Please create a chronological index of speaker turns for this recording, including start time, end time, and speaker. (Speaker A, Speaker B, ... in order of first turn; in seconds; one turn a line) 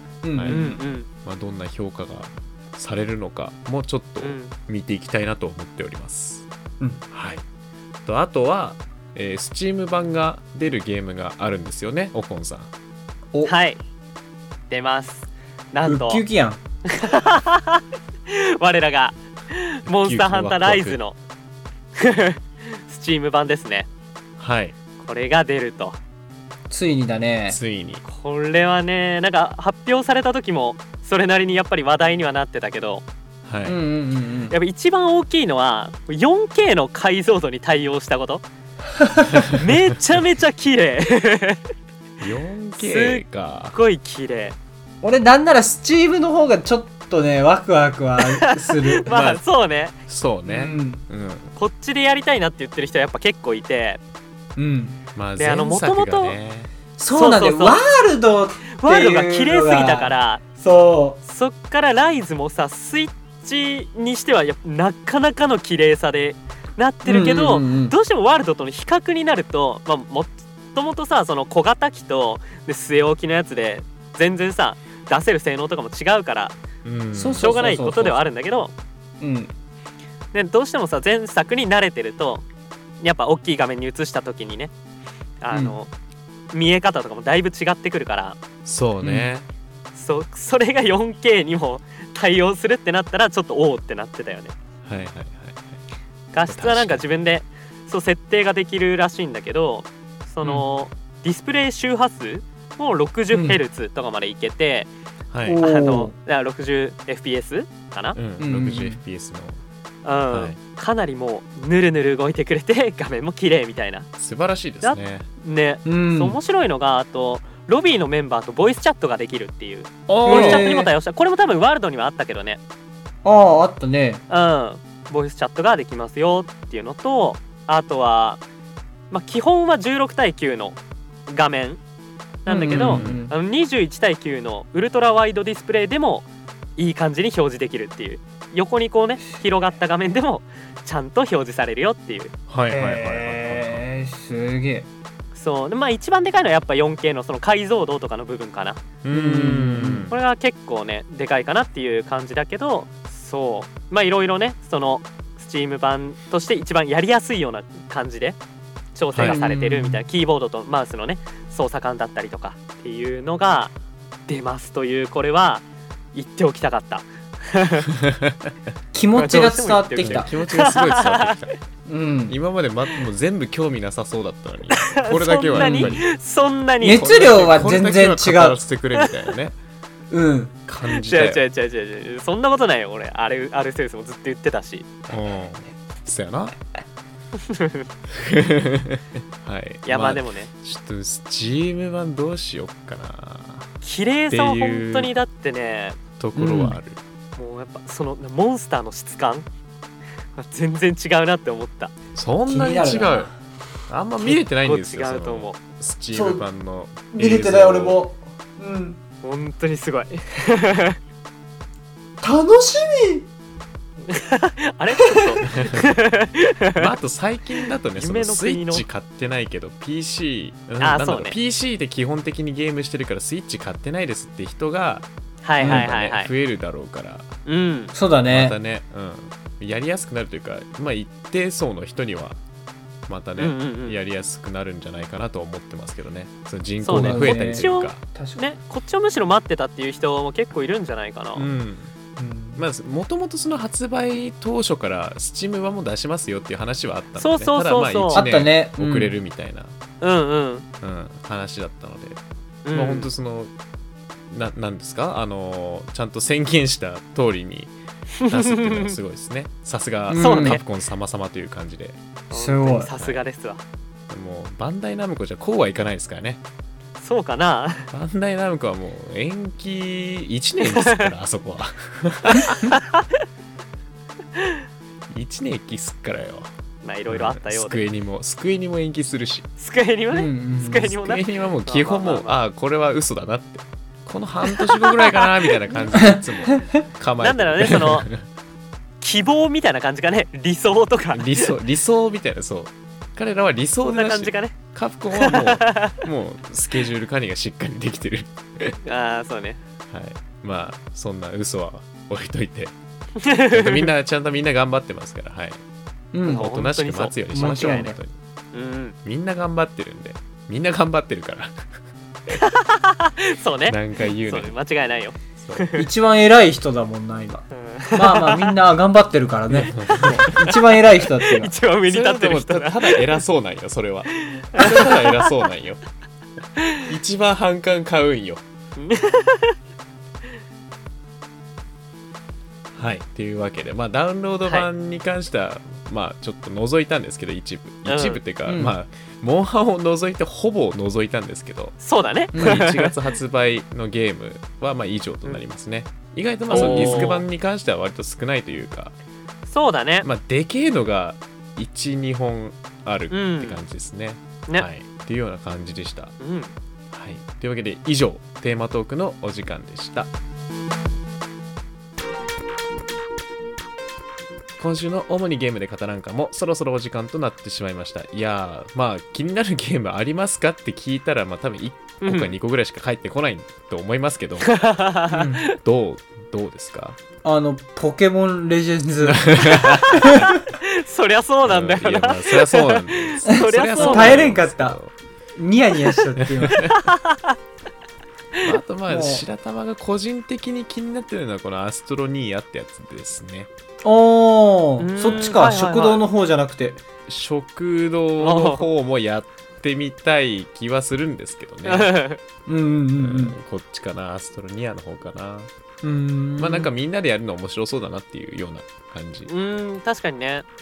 Speaker A: 0.2-0.8
Speaker B: 0.3-6.5
Speaker C: 0.5-1.1
Speaker C: 4.2-4.5
Speaker B: 7.1-7.4
Speaker B: 8.1-12.7
Speaker C: 13.4-13.8
Speaker C: 14.7-16.2
Speaker A: 15.8-16.6
Speaker C: 16.9-21.2
Speaker B: 19.9-21.0
Speaker C: 22.0-23.9
Speaker B: 24.4-24.8
Speaker C: 25.0-26.0
Speaker A: 26.7-27.6
Speaker B: 27.5-28.0
Speaker C: 28.1-33.0
Speaker B: 33.5-33.8
Speaker A: 33.7-34.6
Speaker C: 34.5-38.4
Speaker A: 39.0-39.4
Speaker B: 39.3-39.6
Speaker C: 39.6-41.6
Speaker B: 42.2-43.8
Speaker C: 42.8-44.6
Speaker A: 45.0-49.1
Speaker C: 48.2-50.0
Speaker B: 49.1-49.4
Speaker B: 50.1-51.5
Speaker A: 50.5-51.0
Speaker C: 51.6-54.0
Speaker A: 54.6-55.0
Speaker B: 55.1-56.7
Speaker C: 55.4-56.4
Speaker A: 57.0-61.2
Speaker C: 57.1-57.8
Speaker C: 58.8-60.4
Speaker C: 61.2-76.6
Speaker A: 67.0-68.0
Speaker B: 76.8-77.7
Speaker A: 77.1-78.2
Speaker C: 77.4-78.7
Speaker A: 79.2-79.5
Speaker C: 80.3-82.5
Speaker C: 83.0-84.7
Speaker C: 85.4-85.9
Speaker A: 85.5-85.8
Speaker C: 86.5-88.4
Speaker B: 88.7-89.5
Speaker A: 89.0-89.3
Speaker C: 90.0-94.5
Speaker B: 94.8-95.8
Speaker C: 96.3-104.9
Speaker B: 96.5-97.0
Speaker A: 103.3-103.6
Speaker B: 105.3-105.6
Speaker A: 105.4-106.1
Speaker C: 105.6-108.2
Speaker B: 108.2-109.6
Speaker A: 108.4-109.0
Speaker C: 110.0-114.1
Speaker B: 110.3-110.6
Speaker B: 114.2-115.3
Speaker C: 114.8-122.6
Speaker A: 115.8-116.4
Speaker B: 120.1-120.7
Speaker A: 120.2-120.9
Speaker A: 123.2-124.2
Speaker C: 124.3-128.4
Speaker C: 129.1-131.8
Speaker C: 132.4-136.3
Speaker A: 132.5-133.3
Speaker B: 132.7-133.2
Speaker C: 136.8-142.3
Speaker B: 142.5-143.8
Speaker A: 142.7-144.9
Speaker C: 145.3-148.8
Speaker B: 149.0-150.2
Speaker A: 149.1-150.1
Speaker C: 150.1-158.4
Speaker C: 158.9-163.7
Speaker B: 159.1-159.4
Speaker A: 159.2-160.0
Speaker C: 164.3-167.9
Speaker B: 168.0-168.5
Speaker A: 168.9-170.3
Speaker C: 169.2-171.5
Speaker B: 170.0-171.6
Speaker A: 171.9-172.4
Speaker B: 172.3-176.1
Speaker C: 174.7-177.1
Speaker A: 175.5-176.0
Speaker A: 176.8-178.6
Speaker B: 176.8-179.6
Speaker A: 180.1-180.6
Speaker B: 180.7-181.4
Speaker C: 180.9-184.9
Speaker B: 185.1-186.6
Speaker C: 187.4-187.9
Speaker B: 188.1-193.7
Speaker C: 189.9-190.5
Speaker C: 193.8-196.0
Speaker B: 194.3-195.1
Speaker B: 196.2-197.0
Speaker A: 196.3-196.8
Speaker C: 197.4-199.5
Speaker C: 200.3-201.9
Speaker B: 202.2-203.3
Speaker A: 202.5-203.3
Speaker B: 203.9-208.0
Speaker C: 204.2-205.6
Speaker A: 206.1-206.4
Speaker A: 207.1-209.0
Speaker C: 209.2-211.0
Speaker A: 212.2-213.3
Speaker C: 214.1-216.9
Speaker A: 214.9-215.3
Speaker B: 215.5-215.9
Speaker B: 216.8-225.1
Speaker C: 218.0-218.9
Speaker C: 220.8-221.4
Speaker C: 225.4-226.3
Speaker A: 225.6-225.9
Speaker B: 225.6-227.3
Speaker C: 227.5-227.9
Speaker A: 227.9-228.6
Speaker B: 228.3-232.4
Speaker B: 233.1-238.0
Speaker C: 233.4-234.0
Speaker C: 236.8-241.5
Speaker A: 236.9-238.4
Speaker B: 241.4-241.9
Speaker A: 242.2-242.6
Speaker B: 242.6-249.8
Speaker C: 247.2-248.2
Speaker A: 248.1-249.2
Speaker C: 250.0-250.7
Speaker B: 250.8-252.2
Speaker C: 252.7-253.1
Speaker B: 252.7-253.5
Speaker B: 254.3-257.7
Speaker C: 258.2-258.9
Speaker B: 258.3-262.0
Speaker A: 260.1-260.6
Speaker C: 260.2-260.6
Speaker A: 262.3-262.9
Speaker C: 262.3-263.6
Speaker B: 264.1-266.4
Speaker C: 267.0-267.9
Speaker B: 267.9-272.7
Speaker C: 270.7-271.1
Speaker C: 272.7-273.0
Speaker B: 275.1-276.5
Speaker C: 276.8-277.8
Speaker B: 277.1-279.5
Speaker C: 279.6-282.4
Speaker A: 280.1-280.9
Speaker B: 280.8-288.3
Speaker C: 284.5-285.8
Speaker A: 285.9-286.2
Speaker C: 287.2-288.1
Speaker C: 289.0-291.5
Speaker B: 291.1-298.8
Speaker C: 293.9-294.6
Speaker C: 295.1-296.0
Speaker C: 298.9-299.6
Speaker B: 299.9-302.8
Speaker C: 303.2-303.9
Speaker B: 303.5-305.6
Speaker A: 306.1-306.5
Speaker C: 306.2-307.9
Speaker B: 306.4-308.2
Speaker A: 307.3-308.0
Speaker C: 308.5-308.9
Speaker B: 309.0-311.6
Speaker C: 312.3-315.9
Speaker B: 313.7-314.6
Speaker B: 315.4-315.7
Speaker A: 315.8-321.5
Speaker C: 317.5-318.5
Speaker B: 319.5-320.3
Speaker C: 320.3-320.6
Speaker C: 321.2-323.2
Speaker B: 321.9-325.8
Speaker C: 324.3-325.3
Speaker B: 326.9-328.4
Speaker C: 328.8-329.6
Speaker B: 332.8-341.8
Speaker C: 337.9-338.2
Speaker A: 338.5-338.8
Speaker C: 341.8-342.9
Speaker A: 342.3-342.6
Speaker B: 342.4-349.0
Speaker A: 346.5-347.2
Speaker C: 346.5-347.2
Speaker C: 349.5-350.1
Speaker B: 350.0-356.1
Speaker C: 353.1-353.6
Speaker C: 356.2-356.5
Speaker B: 356.9-360.1
Speaker B: 364.6-374.5
Speaker C: 372.0-372.3
Speaker C: 374.5-375.4
Speaker A: 375.1-375.5
Speaker B: 375.6-377.0
Speaker A: 377.2-380.3
Speaker B: 379.1-379.9
Speaker C: 379.6-384.3
Speaker B: 381.4-384.9
Speaker A: 383.8-384.8
Speaker A: 385.4-386.8
Speaker B: 386.2-386.7
Speaker C: 386.6-387.4
Speaker B: 388.4-393.5
Speaker A: 388.9-389.2
Speaker A: 393.8-396.8
Speaker C: 394.8-396.0
Speaker B: 395.0-395.4
Speaker B: 397.1-401.9
Speaker C: 398.2-398.7
Speaker C: 401.7-402.2
Speaker A: 402.5-403.4
Speaker B: 403.0-405.5
Speaker A: 405.8-406.7
Speaker B: 406.4-409.3
Speaker C: 409.3-410.5